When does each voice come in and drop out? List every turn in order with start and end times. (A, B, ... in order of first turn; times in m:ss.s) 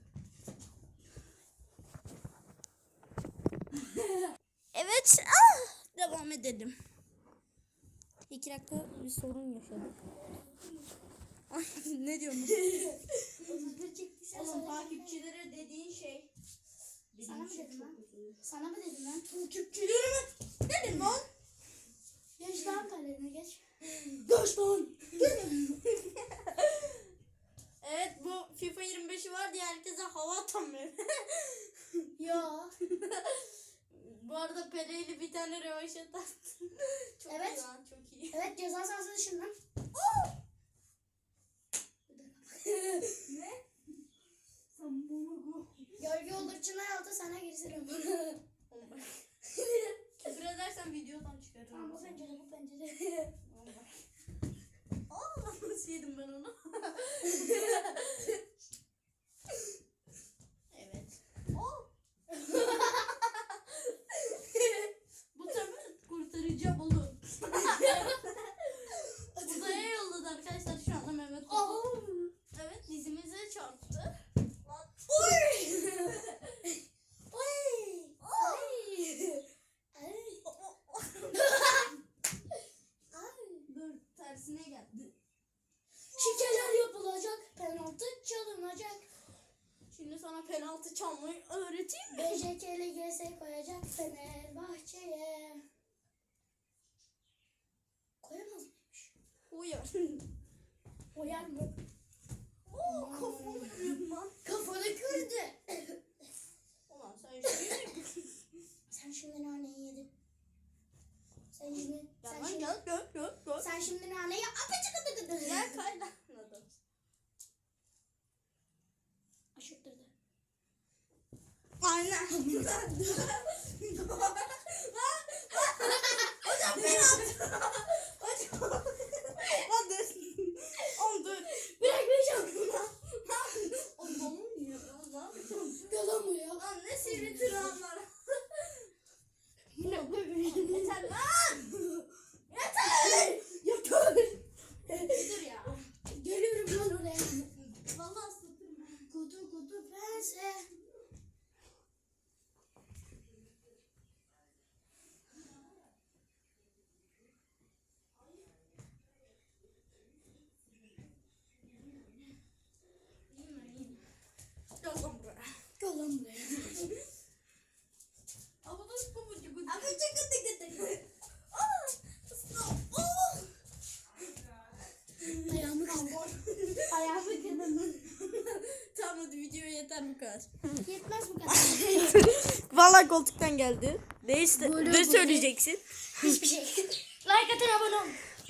0:04.7-0:06.8 A
0:08.3-0:09.9 A
0:10.4-0:10.7 B
0:11.5-0:13.4 A
0:13.4-0:15.2 B
0:14.3-0:16.3 A
0:17.1-0:18.4 A
0:17.2-0:19.9 B
0:19.7-0:21.2 A
0:20.9-0:21.2 B
0:22.4-0:23.6 B
0:24.1-0:25.5 B
0:25.2-0:27.0 A
0:27.8-0:32.1 A
0:32.2-0:32.7 B
0:32.8-0:38.4 A
0:37.2-0:37.6 B
0:38.3-0:39.5 B
0:39.9-0:40.3 A
0:42.1-0:43.2 B
0:43.1-0:43.6 A
0:44.7-0:46.0 A
0:46.0-0:48.4 B
0:48.7-0:49.2 A
0:49.5-0:50.2 B
0:50.2-0:52.2 A
0:51.7-0:53.3 B
0:53.4-0:53.9 A
0:55.1-0:58.4 A
1:00.7-1:01.9 A
1:02.3-1:03.2 B
1:02.8-1:16.6 A
1:07.6-1:08.2 B
1:08.9-1:09.8 B
1:11.5-1:12.3 B
1:15.1-1:16.2 B
1:17.3-1:20.4 B
1:18.2-1:18.9 A
1:20.4-1:21.9 A
1:21.3-1:21.9 B
1:23.1-1:23.6 B
1:23.7-1:25.2 A
1:26.2-1:29.1 B
1:26.2-1:26.8 A
1:29.9-1:32.4 A
1:32.1-1:35.6 B
1:38.2-1:39.1 B
1:39.5-1:40.2 A
1:41.1-1:41.7 B
1:42.7-1:44.4 A
1:42.8-1:46.0 B
1:46.9-1:48.4 A
1:48.9-1:50.1 B
1:51.5-1:52.8 B
1:52.2-1:53.7 A
1:53.6-1:55.8 B
1:55.4-1:56.8 A
1:59.6-2:00.1 B
2:01.8-2:11.6 A
2:02.5-2:03.0 B
2:05.6-2:07.3 B
2:11.5-2:12.8 B
2:12.4-2:15.9 A
2:15.6-2:17.8 B
2:16.6-2:18.9 A
2:19.8-2:21.1 B
2:20.4-2:23.9 A
2:22.9-2:24.3 B
2:24.9-2:25.8 A
2:24.9-2:25.4 B
2:26.1-2:27.5 B
2:27.5-2:29.1 A
2:29.1-2:30.7 B
2:43.3-2:44.0 A
2:44.8-2:45.6 A
2:45.8-2:47.0 B
2:48.8-2:53.5 A
2:49.4-2:50.0 B
2:55.2-3:00.7 A
2:55.5-2:56.3 B
2:56.9-2:58.0 B
3:00.8-3:02.4 B
3:01.5-3:06.4 A
3:04.6-3:05.5 B
3:06.2-3:08.2 B